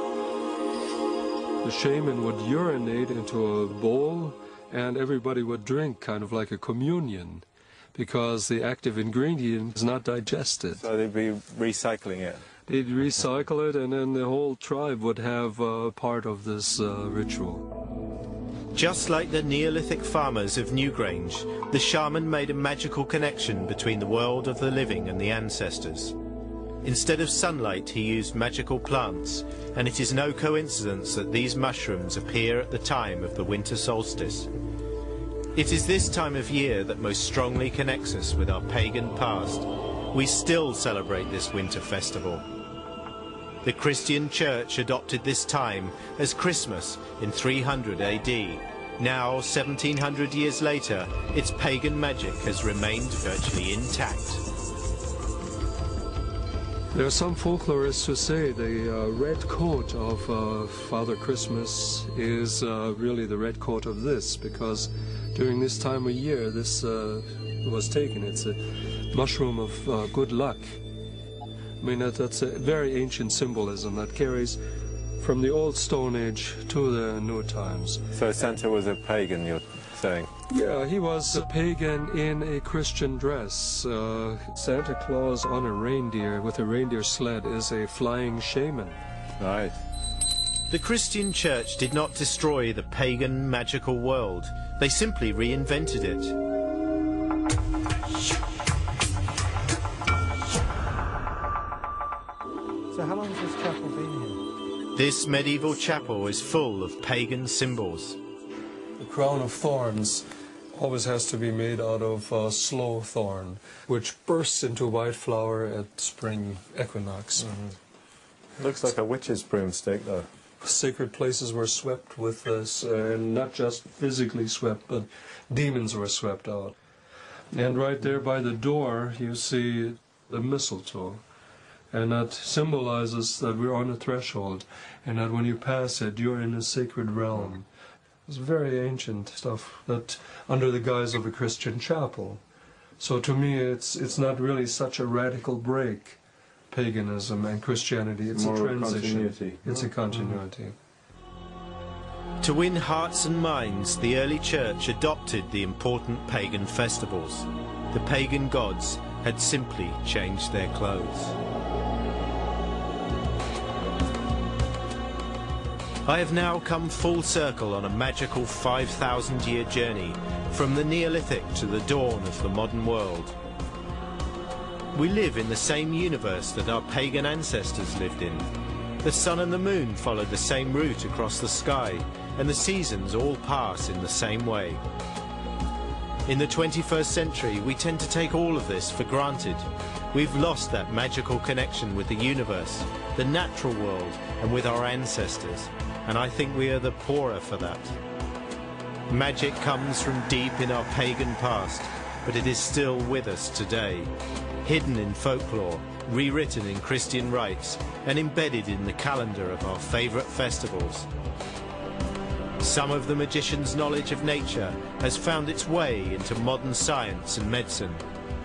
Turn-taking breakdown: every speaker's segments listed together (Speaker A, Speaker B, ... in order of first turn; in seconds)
Speaker A: 1.6-10.8, 12.7-17.6, 56.9-68.6, 69.1-70.8, 71.8-74.6, 75.2-78.0, 80.5-89.0, 109.0-117.5, 120.6-126.7, 127.5-131.2, 131.9-137.7, 138.3-142.4, 143.0-146.2, 146.7-150.8
Speaker B: 10.8-12.4, 78.1-80.3, 89.4-89.8, 118.6-120.3, 148.3-149.7
Speaker C: 18.7-26.1, 26.8-34.5, 35.5-42.4, 43.6-54.4, 90.7-96.3, 103.0-104.3, 104.9-108.2, 152.4-161.4, 166.1-173.3, 174.9-178.5, 179.0-184.8, 186.3-198.0, 199.1-204.1, 204.6-211.1, 212.6-218.0